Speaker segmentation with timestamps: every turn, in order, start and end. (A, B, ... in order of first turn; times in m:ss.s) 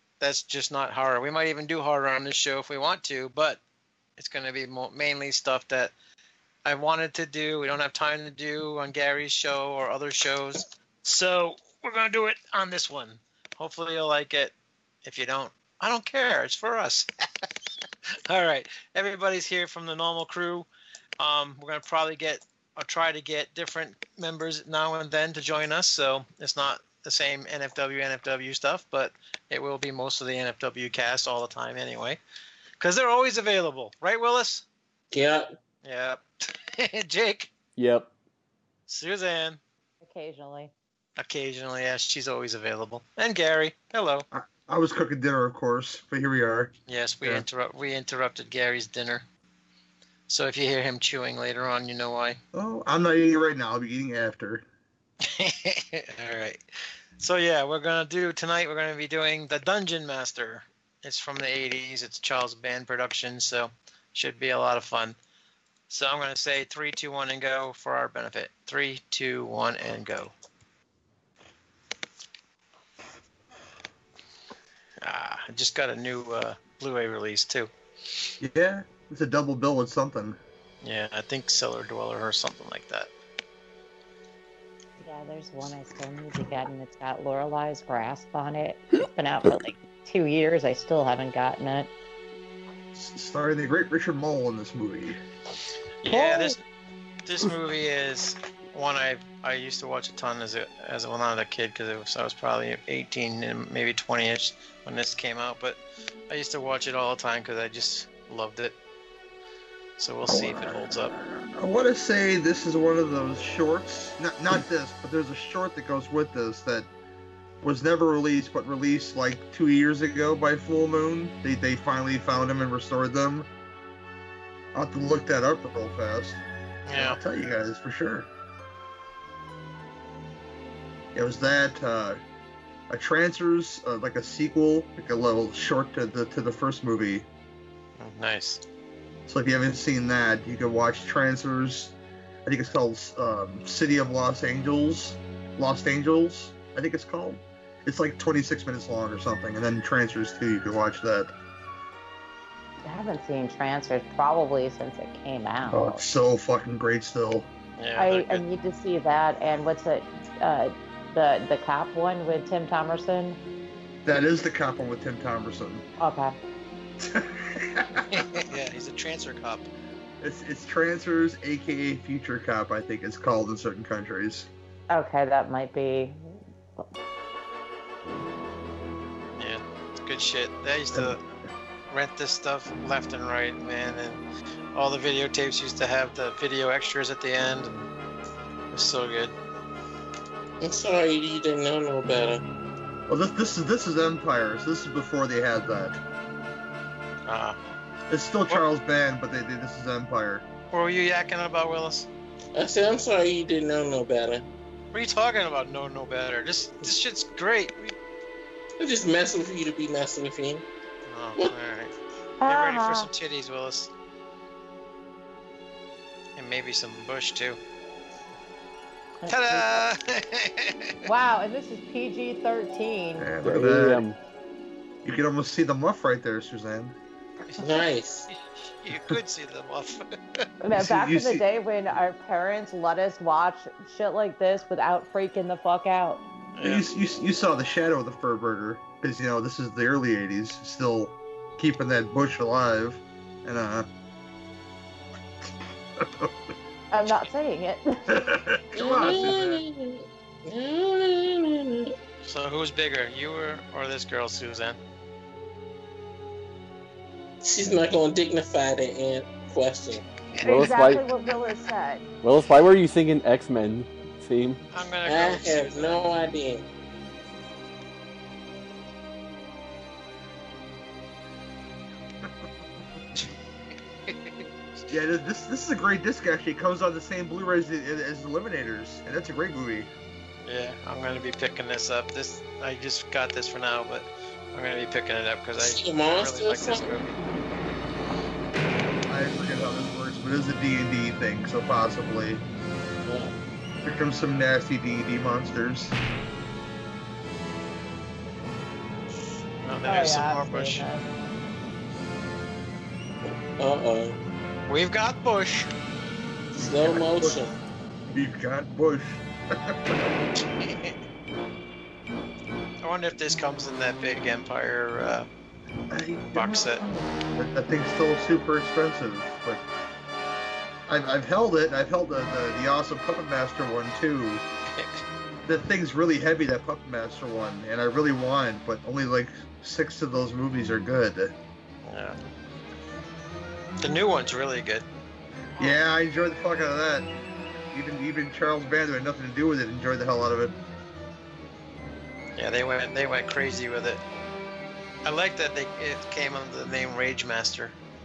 0:00.2-0:03.6 A
0:04.2-0:05.9 A
0:06.6-0:14.5 A
0:15.0-0:17.1 A
0:18.3-0:20.7 A
0:21.2-0:32.2 A
0:32.8-0:34.6 A
0:35.1-0:35.5 B
0:35.8-0:37.5 A
0:37.8-0:38.1 C
0:38.9-0:39.6 A
0:40.0-0:40.7 D
0:41.2-0:44.3 A
0:44.3-0:47.5 E
0:46.9-0:49.2 A
0:50.3-0:52.4 A
0:52.5-0:54.6 E
0:55.2-0:56.6 A
0:57.2-1:05.2 A
1:05.9-1:10.3 A
1:15.0-1:17.7 A
1:18.4-1:20.4 E
1:20.8-1:23.1 A
1:25.0-1:31.9 D
1:33.0-1:35.2 E
1:36.0-1:36.6 A
1:36.1-1:36.6 D
1:37.2-1:45.8 A
1:46.3-1:48.8 A
1:50.0-1:51.1 A
1:50.3-1:56.9 E
1:57.6-2:03.5 E
2:04.7-2:06.4 E
2:06.9-2:07.2 A
2:07.0-2:08.3 E
2:11.1-2:12.2 E
2:12.9-2:17.3 E
2:18.0-2:18.6 A
2:19.3-2:31.3 E
2:32.8-2:36.0 D
2:35.7-2:37.5 E
2:37.8-2:38.4 A
2:38.0-2:43.4 D
2:44.0-2:45.8 E
2:46.0-2:46.4 D
2:47.0-2:48.1 E
2:48.1-2:49.7 A
2:50.2-2:54.5 E
2:54.9-2:56.9 D
2:59.4-3:01.2 A
3:01.9-3:04.2 A
3:04.7-3:07.7 A
3:08.7-3:09.4 A
3:10.6-3:12.4 B
3:13.1-3:16.0 E
3:17.3-3:17.6 A
3:18.1-3:20.4 E
3:20.7-3:22.1 A
3:22.6-3:24.5 B
3:24.9-3:28.0 A
3:28.8-3:30.6 B
3:31.1-3:31.9 A
3:32.4-3:33.1 D
3:32.5-3:33.9 A
3:36.4-3:37.6 A
3:39.2-3:39.8 D
3:39.3-3:41.0 A
3:41.0-3:43.3 D
3:43.2-3:44.0 E
3:43.4-3:44.2 C
3:45.0-3:47.0 E
3:47.6-3:48.3 B
3:48.3-3:50.5 A
3:50.6-3:56.2 D
3:50.8-3:51.5 E
3:56.6-3:57.0 A
3:56.6-4:03.9 E
4:06.0-4:06.3 E
4:06.9-4:08.4 D
4:08.1-4:09.6 E
4:08.7-4:11.9 B
4:12.2-4:14.8 A
4:17.4-4:20.0 B
4:20.4-4:20.7 A
4:20.4-4:22.0 D
4:20.4-4:21.0 C
4:22.2-4:24.6 C
4:24.7-4:26.1 A
4:25.0-4:26.7 B
4:34.1-4:34.8 A
4:34.9-4:39.9 E
4:40.4-4:47.2 A
4:45.6-4:46.9 B
4:49.1-4:52.4 E
4:53.0-4:53.4 B
4:53.8-4:55.9 E
4:59.6-5:00.9 A
4:59.9-5:01.1 D
5:03.6-5:04.2 B
5:04.7-5:05.7 A
5:06.5-5:07.6 B
5:06.6-5:07.4 E
5:08.1-5:10.0 E
5:10.4-5:11.0 A
5:12.8-5:15.3 A
5:15.9-5:19.6 E
5:16.4-5:16.8 A
5:20.9-5:24.4 E
5:24.8-5:25.0 A
5:25.4-5:31.4 E
5:31.8-5:32.2 A
5:33.8-5:34.9 A
5:35.6-5:37.1 E
5:37.7-5:40.6 E
5:42.4-5:44.0 A
5:45.0-5:47.8 A